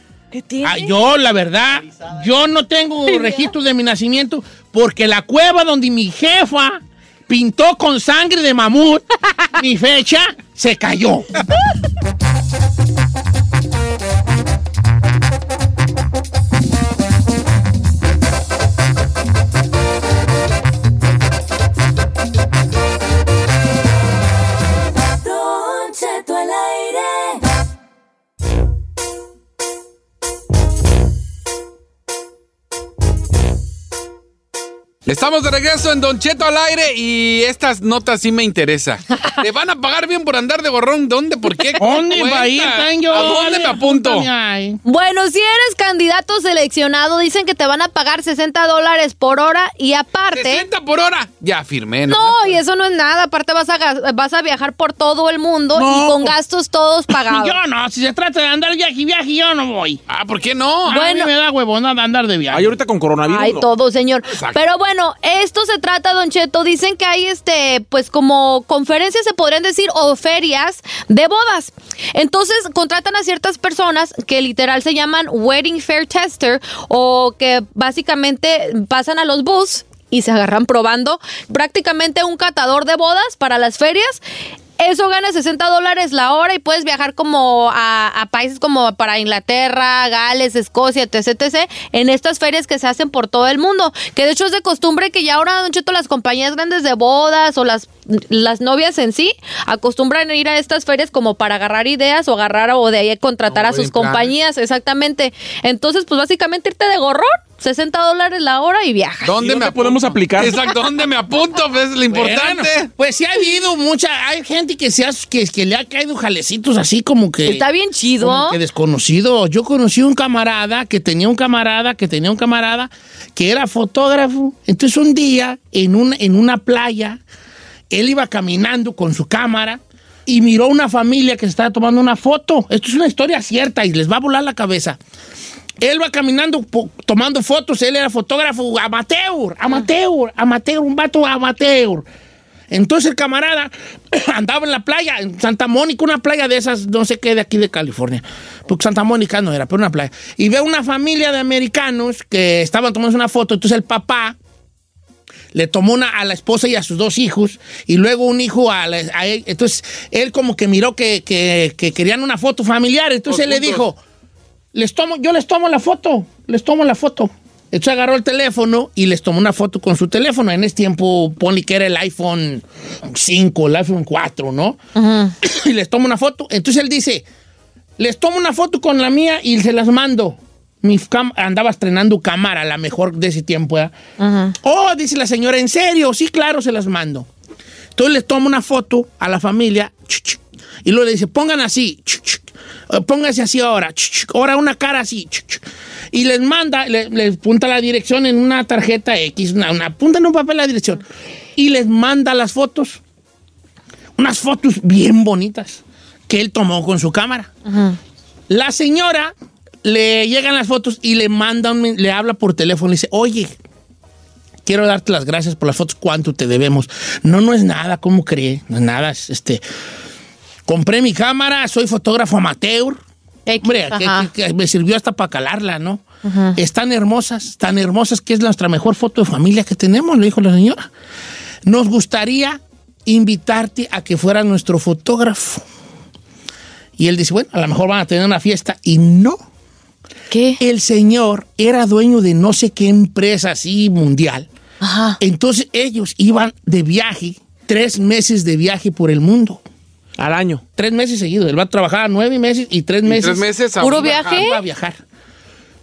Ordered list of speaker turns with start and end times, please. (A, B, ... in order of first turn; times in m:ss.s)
0:00.3-0:00.9 A
0:00.6-0:11.3 B
0:03.1-0:03.5 A
0:25.2-0:27.4 C
0:35.0-0:44.3 D
0:41.8-0:44.8 B
0:44.8-0:50.6 A
0:50.3-0:52.6 D
0:52.1-0:57.6 A
0:55.7-0:56.3 B
0:57.1-1:00.0 B
1:00.1-1:01.0 D
1:00.8-1:02.8 B
1:00.9-1:01.3 A
1:02.5-1:03.6 E
1:03.3-1:24.2 A
1:04.2-1:04.6 D
1:24.8-1:49.4 A
1:43.5-1:44.3 D
1:49.2-1:52.9 D
1:49.4-1:50.6 E
1:52.1-1:57.6 B
1:57.4-1:58.6 A
1:58.2-2:07.2 B
2:07.9-2:15.0 B
2:15.8-2:22.0 B
2:22.7-2:34.4 B
2:35.5-2:44.0 B
2:43.3-2:43.9 D
2:44.7-2:54.8 B
2:54.9-2:55.3 A
2:55.4-2:57.2 B
2:58.0-3:03.9 B
3:04.2-3:04.5 A
3:04.6-3:07.3 B
3:08.0-3:21.0 B
3:21.6-3:23.0 B
3:24.2-3:27.5 B
3:27.6-3:28.0 A
3:28.5-3:29.3 B
3:29.8-3:33.5 B
3:34.6-3:39.6 B
3:40.6-3:43.0 B
3:43.4-3:44.3 A
3:43.6-3:46.0 B
3:46.2-3:46.6 A
3:46.6-3:50.9 B
3:51.6-3:55.6 B
3:57.0-3:59.4 B
4:00.3-4:00.6 A
4:00.6-4:04.5 B
4:04.8-4:05.2 A
4:05.2-4:09.6 B
4:10.2-4:10.6 E
4:10.8-4:15.0 B
4:13.0-4:14.4 D
4:13.8-4:14.6 A